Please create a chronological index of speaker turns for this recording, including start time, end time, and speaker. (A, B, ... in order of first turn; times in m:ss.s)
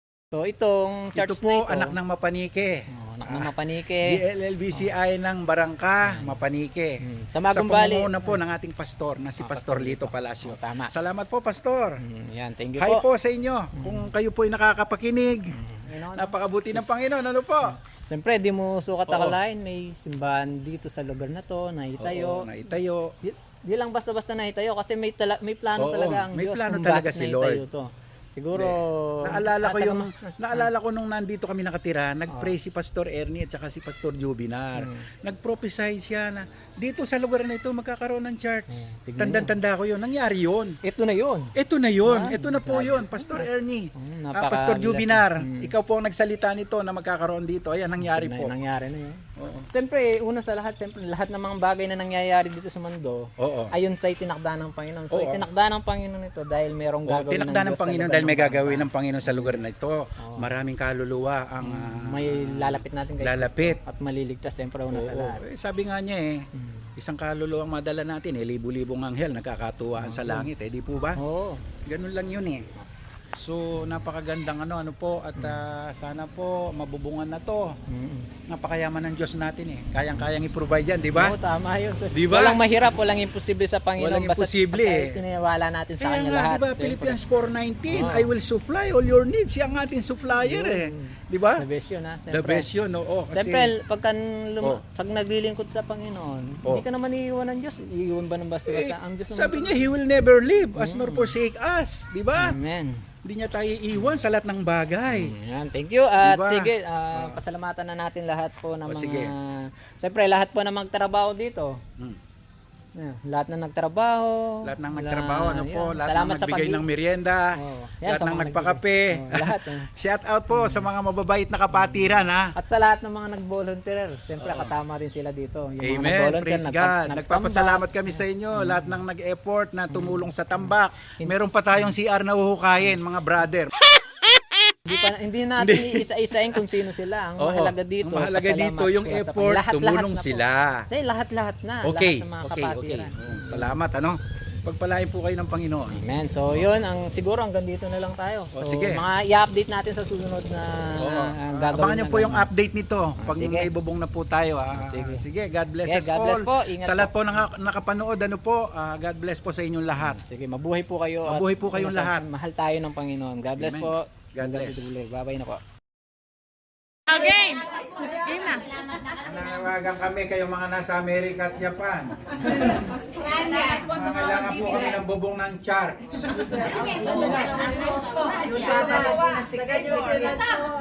0:00.3-0:02.0 A
0:01.1-0:12.0 B
0:02.9-0:04.2 A
0:06.0-0:06.4 A
0:07.0-0:08.4 A
0:09.4-0:10.9 A
0:12.0-0:13.0 A
0:12.8-0:15.5 B
0:13.8-0:14.1 A
0:15.6-0:16.8 A
0:16.1-0:17.8 B
0:17.7-0:22.6 A
0:19.1-0:19.4 B
0:22.0-0:23.1 B
0:23.2-0:30.7 A
0:25.8-0:27.6 B
0:28.6-0:40.8 B
0:32.3-0:32.6 A
0:34.8-0:35.0 A
0:38.7-0:39.6 A
0:40.8-0:45.7 A
0:41.6-0:48.5 B
0:48.0-0:59.6 A
0:49.4-0:49.7 B
0:53.4-0:53.7 B
0:55.1-0:55.5 B
0:57.1-1:03.8 B
1:00.2-1:00.5 A
1:01.6-1:05.4 A
1:04.9-1:06.4 B
1:06.5-1:06.9 A
1:07.0-1:11.2 B
1:10.0-1:10.5 A
1:11.2-1:11.6 A
1:11.9-1:12.7 B
1:13.3-1:17.7 B
1:15.4-1:15.6 A
1:17.9-1:18.3 A
1:18.5-1:21.4 B
1:21.1-1:27.2 A
1:22.1-1:22.9 B
1:24.0-1:25.2 B
1:26.0-1:31.6 B
1:27.9-1:28.3 A
1:30.3-1:32.8 A
1:32.3-1:33.7 B
1:33.3-1:39.9 A
1:38.7-1:42.6 B
1:40.8-1:41.4 A
1:42.4-1:43.0 A
1:43.2-1:45.3 B
1:43.9-1:44.2 A
1:45.1-1:51.8 A
1:46.2-1:47.4 B
1:48.9-1:49.3 B
1:53.0-1:56.8 A
1:54.6-1:57.5 B
1:57.6-1:59.9 A
1:58.1-2:02.5 B
2:00.5-2:00.9 A
2:01.7-2:09.0 A
2:04.4-2:04.7 B
2:05.8-2:13.8 B
2:09.9-2:11.9 A
2:14.8-2:23.8 A
2:15.6-2:16.6 B
2:17.4-2:20.9 B
2:21.8-2:26.0 B
2:25.9-2:32.5 A
2:28.5-2:29.0 B
2:31.0-2:40.2 B
2:33.2-2:33.7 A
2:34.8-2:35.2 A
2:35.9-2:37.2 A
2:40.0-2:45.6 A
2:41.3-2:42.3 B
2:43.6-2:44.9 B
2:47.1-2:49.0 C
2:49.2-2:52.9 B
2:53.2-2:53.8 C
2:53.7-2:57.2 B
2:56.8-3:00.7 C